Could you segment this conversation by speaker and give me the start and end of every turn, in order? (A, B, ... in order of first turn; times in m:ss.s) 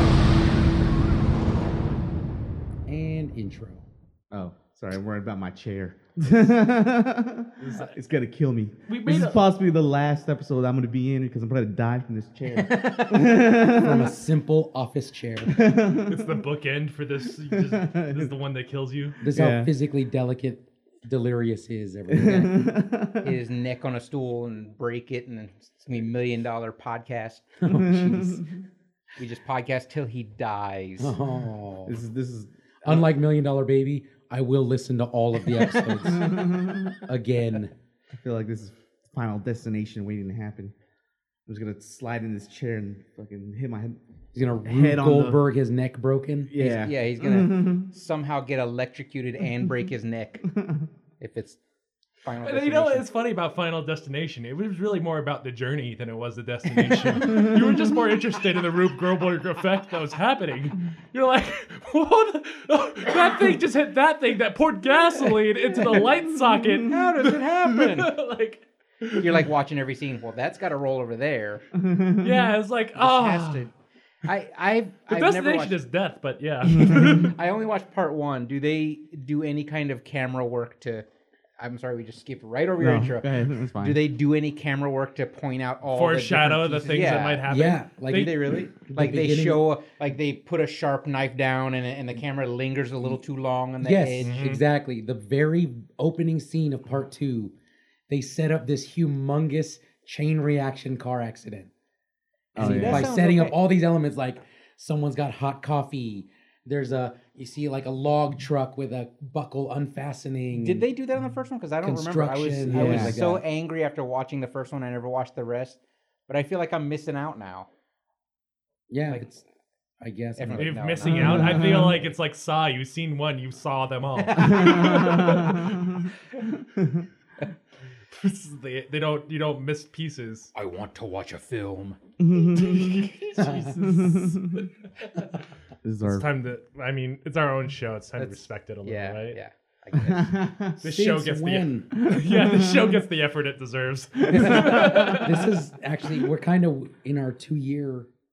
0:02.9-0:03.8 A
0:04.3-0:14.1 B
0:07.6-0:07.9 C
0:08.9-0:09.4 C
0:12.5-0:13.3 D
0:13.6-0:15.6 A
0:15.5-0:16.4 B
0:16.0-0:19.2 C
0:17.5-0:18.3 B
0:19.2-0:22.6 A
0:19.3-0:19.7 B
0:22.1-0:23.3 B
0:23.2-0:27.7 D
0:27.6-0:28.4 A
0:27.7-0:28.5 B
0:29.2-0:31.1 D
0:31.0-0:32.0 A
0:31.8-0:33.1 B
0:32.8-0:36.3 A
0:36.0-0:37.0 B
0:37.0-0:37.7 A
0:38.1-0:40.7 B
0:41.5-0:44.0 B
0:44.3-0:46.8 A
0:44.6-0:45.4 B
0:46.5-0:47.9 B
0:46.6-0:50.5 D
0:50.5-0:50.9 B
0:51.2-0:51.6 D
0:52.2-0:53.0 D
0:52.4-1:09.4 C
0:57.3-0:57.8 B
1:05.8-1:06.0 D
1:06.4-1:07.0 B
1:06.8-1:08.1 D
1:09.2-1:11.6 D
1:11.8-1:12.5 B
1:12.2-1:13.6 C
1:13.0-1:13.7 D
1:14.2-1:15.8 D
1:15.1-1:17.4 C
1:16.6-1:17.3 B
1:16.8-1:21.0 D
1:21.6-1:27.4 D
1:22.8-1:24.0 B
1:25.9-1:28.3 C
1:27.5-1:29.6 A
1:28.1-1:34.3 D
1:33.8-1:37.5 A
1:34.2-1:34.6 C
1:38.1-1:41.7 A
1:42.5-1:43.1 B
1:42.5-1:50.8 A
1:42.6-1:43.6 D
1:50.5-1:57.7 D
1:51.8-1:53.4 A
1:52.7-1:53.2 B
1:58.9-1:59.4 A
2:00.0-2:00.9 A
2:00.4-2:02.1 D
2:00.6-2:06.0 C
2:01.0-2:02.1 B
2:04.2-2:05.7 D
2:04.4-2:07.1 B
2:08.1-2:10.5 C
2:10.5-2:12.0 D
2:12.2-2:13.1 B
2:12.3-2:14.7 C
2:13.4-2:13.7 A
2:13.8-2:14.7 B
2:15.8-2:16.3 B
2:16.0-2:19.4 C
2:18.2-2:20.4 D
2:20.0-2:20.8 B
2:20.8-2:25.5 C
2:20.8-2:21.9 A
2:22.0-2:23.0 B
2:24.3-2:28.1 A
2:24.3-2:25.3 B